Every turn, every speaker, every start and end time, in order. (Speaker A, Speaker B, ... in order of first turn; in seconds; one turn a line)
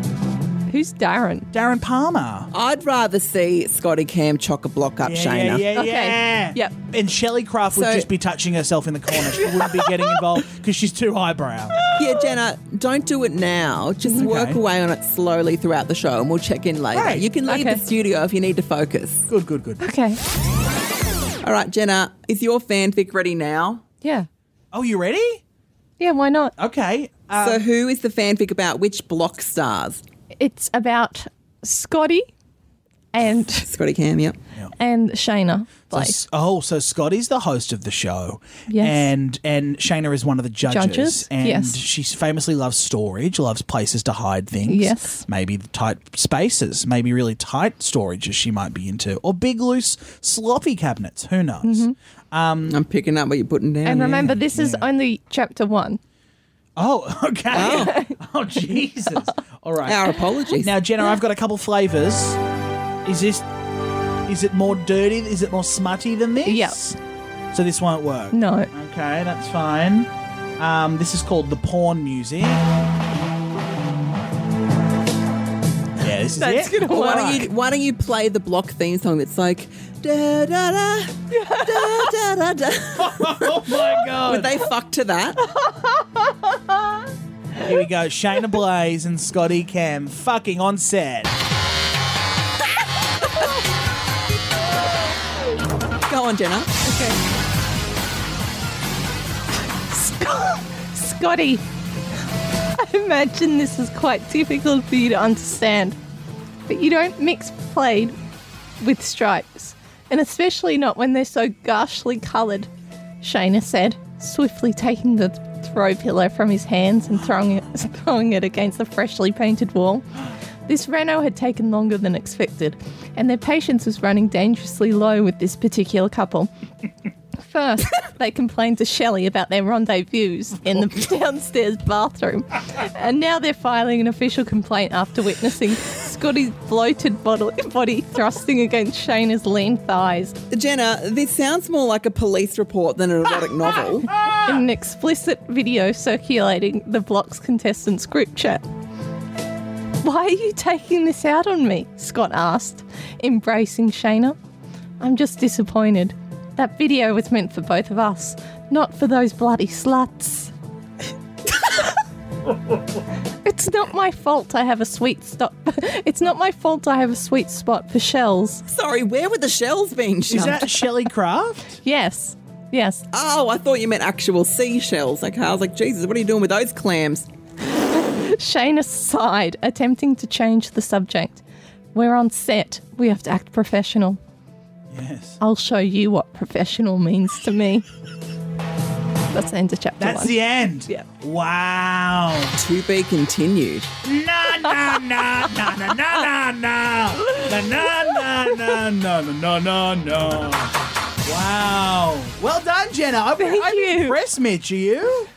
Speaker A: 0.7-1.5
Speaker B: 1.5-2.5
Speaker C: 2.5-5.7
Speaker B: 5.0-11.8
Speaker A: 5.8-6.7
Speaker C: 7.7-8.1
Speaker A: 9.4-9.8
Speaker C: 11.9-19.3
Speaker B: 14.2-14.6
Speaker B: 16.9-17.3
Speaker A: 17.5-17.8
Speaker B: 19.3-19.8
Speaker A: 19.8-20.2
Speaker C: 21.4-23.8
Speaker A: 24.0-24.3
Speaker B: 24.7-25.4
Speaker A: 26.0-26.5
Speaker B: 26.6-27.6
Speaker C: 27.4-30.0
Speaker A: 30.4-32.2
Speaker A: 33.1-33.7
Speaker C: 33.7-34.4
Speaker A: 34.8-36.2
Speaker B: 35.9-52.8
Speaker A: 38.7-39.1
Speaker A: 40.7-41.8
Speaker A: 44.7-45.2
Speaker A: 51.6-51.9
Speaker C: 52.7-54.2
Speaker A: 53.9-56.0
Speaker B: 53.9-54.9
Speaker B: 56.8-62.4
Speaker C: 57.5-58.0
Speaker A: 57.6-58.1
Speaker C: 59.9-60.8
Speaker B: 63.0-63.5
Speaker B: 64.3-67.0
Speaker A: 66.5-66.8
Speaker B: 67.5-72.7
Speaker A: 68.3-68.7
Speaker B: 76.0-77.5
Speaker A: 76.4-77.4
Speaker C: 76.8-85.4
Speaker A: 81.3-82.1
Speaker B: 83.0-84.6
Speaker A: 85.5-87.0
Speaker B: 87.6-91.3
Speaker C: 96.1-96.8
Speaker A: 96.8-97.2
Speaker A: 99.9-101.6
Speaker A: 102.7-106.0
Speaker A: 106.7-108.2
Speaker A: 108.8-112.7
Speaker A: 113.2-120.1
Speaker A: 120.7-126.5
Speaker A: 127.4-140.3
Speaker C: 140.5-144.1
Speaker A: 144.2-148.6
Speaker A: 150.0-154.4
Speaker A: 155.0-160.5
Speaker A: 163.4-168.6
Speaker C: 168.7-170.9
Speaker B: 170.3-171.8
Speaker A: 171.8-173.0
Speaker C: 173.1-177.3
Speaker A: 177.7-181.4
Speaker A: 181.9-184.2
Speaker B: 184.9-185.4
Speaker A: 185.4-187.9
Speaker A: 189.3-191.1
Speaker B: 190.0-192.5
Speaker C: 192.6-193.9
Speaker B: 194.0-200.7
Speaker B: 201.3-205.3
Speaker A: 203.4-204.2